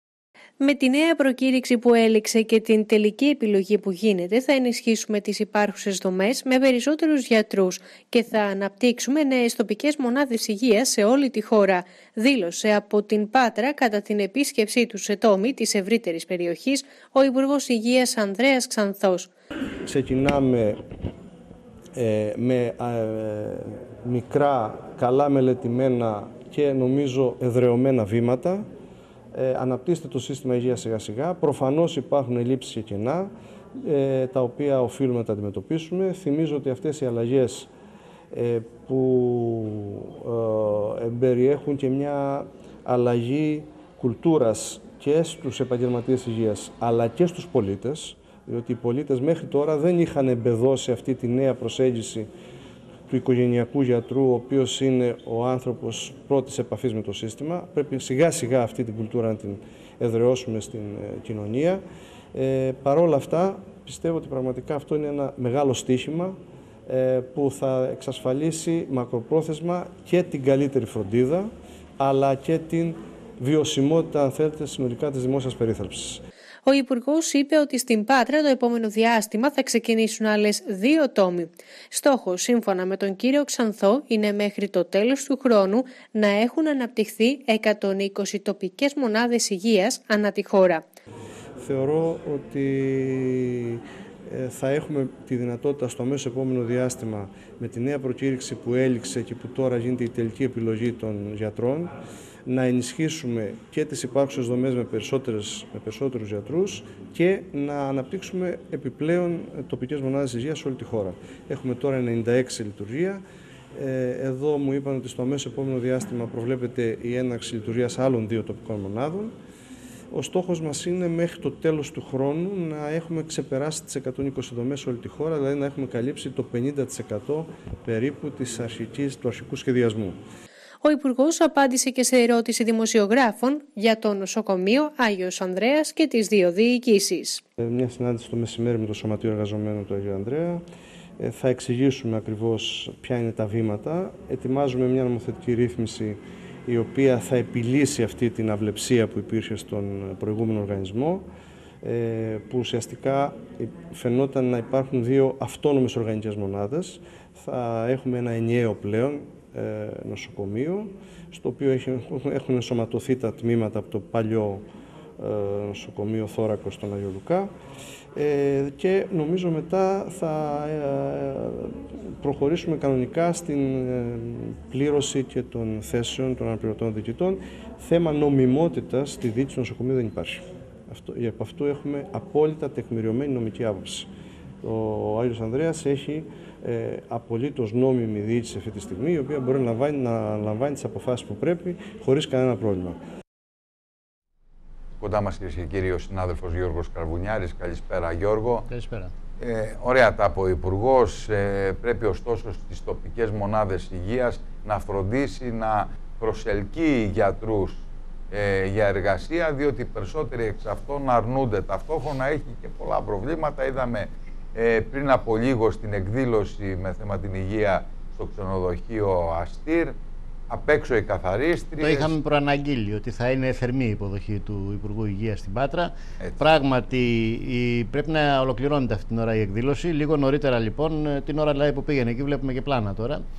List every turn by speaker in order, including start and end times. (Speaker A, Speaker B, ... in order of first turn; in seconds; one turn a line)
Speaker A: 0.6-19.3
Speaker B: 19.9-20.8
Speaker B: 21.9-28.7
Speaker B: 29.3-37.7
Speaker B: 38.3-52.3
Speaker B: 53.1-61.8
Speaker B: 62.3-76.2
Speaker A: 76.7-90.9
Speaker B: 91.6-101.9
Speaker B: 102.5-113.2
Speaker B: 113.8-119.3
Speaker B: 120.1-130.2
Speaker A: 130.8-137.4
Speaker B: 137.6-140.6
Speaker B: 141.2-151.3
Speaker B: 151.8-164.7
Speaker B: 165.2-167.5
Speaker B: 168.2-184.1
Speaker B: 184.6-193.0
Speaker C: 195.0-198.7
Speaker D: 198.7-199.1
Speaker C: 199.4-220.0
Speaker C: 220.5-222.2
Speaker D: 221.8-233.2